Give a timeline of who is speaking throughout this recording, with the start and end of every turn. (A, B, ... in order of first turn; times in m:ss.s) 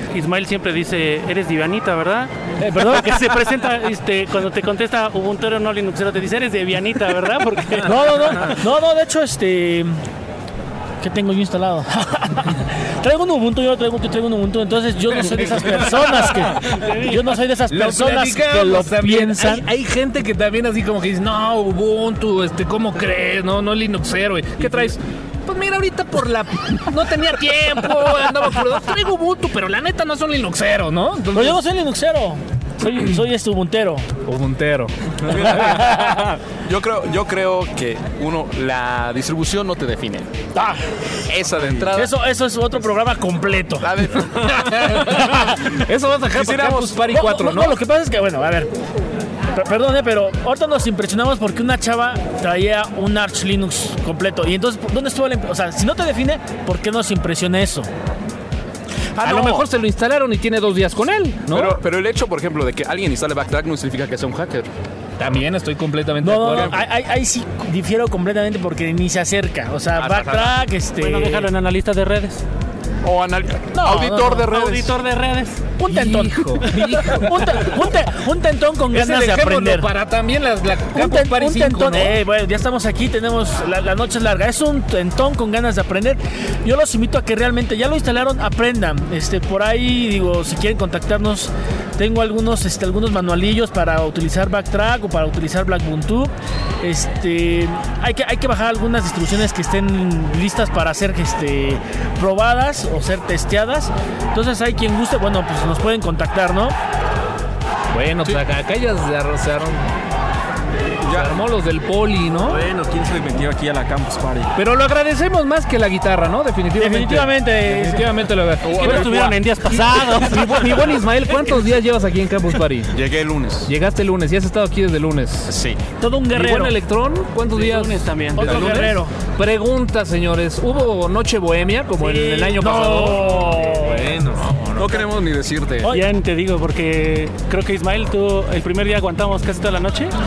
0:00.1-0:08.5 A
0:02.7-0:03.0 B
0:07.8-0:10.0 B
0:11.0-0:19.6 B
0:16.7-0:17.2 A
0:17.7-0:31.6 C
0:31.3-0:34.1 B
0:34.2-0:34.9 C
0:35.3-0:40.3 D
0:35.5-0:36.2 B
0:40.5-0:40.8 B
0:41.3-0:42.1 D
0:41.9-0:43.9 B
0:43.8-0:45.2 D
0:44.4-0:47.8 C
0:46.4-0:47.0 D
0:47.1-0:48.7 B
0:49.5-0:57.9 B
0:59.2-1:01.8 C
0:59.3-0:59.5 B
1:01.5-1:04.7 D
1:05.2-1:06.7 C
1:06.2-1:11.5 B
1:06.5-1:06.8 D
1:10.0-1:10.6 D
1:11.0-1:12.4 A
1:13.0-1:15.0 D
1:13.7-1:14.5 B
1:13.9-1:15.7 A
1:15.8-1:19.9 B
1:15.8-1:17.3 C
1:18.9-1:22.2 C
1:20.9-1:46.7 B
1:47.9-1:49.9 C
1:51.0-1:52.6 C
1:51.1-1:51.4 D
1:52.5-1:54.5 E
1:54.5-1:59.1 C
1:56.8-1:58.0 B
1:58.6-1:59.4 D
1:58.7-2:01.0 A
1:59.7-2:02.9 C
2:02.9-2:03.7 D
2:03.6-2:05.5 C
2:05.5-2:05.8 D
2:06.0-2:06.7 B
2:06.3-2:13.2 C
2:07.4-2:09.0 A
2:08.4-2:09.1 B
2:12.0-2:14.1 B
2:13.3-2:14.8 E
2:14.6-2:16.0 D
2:15.8-2:20.1 A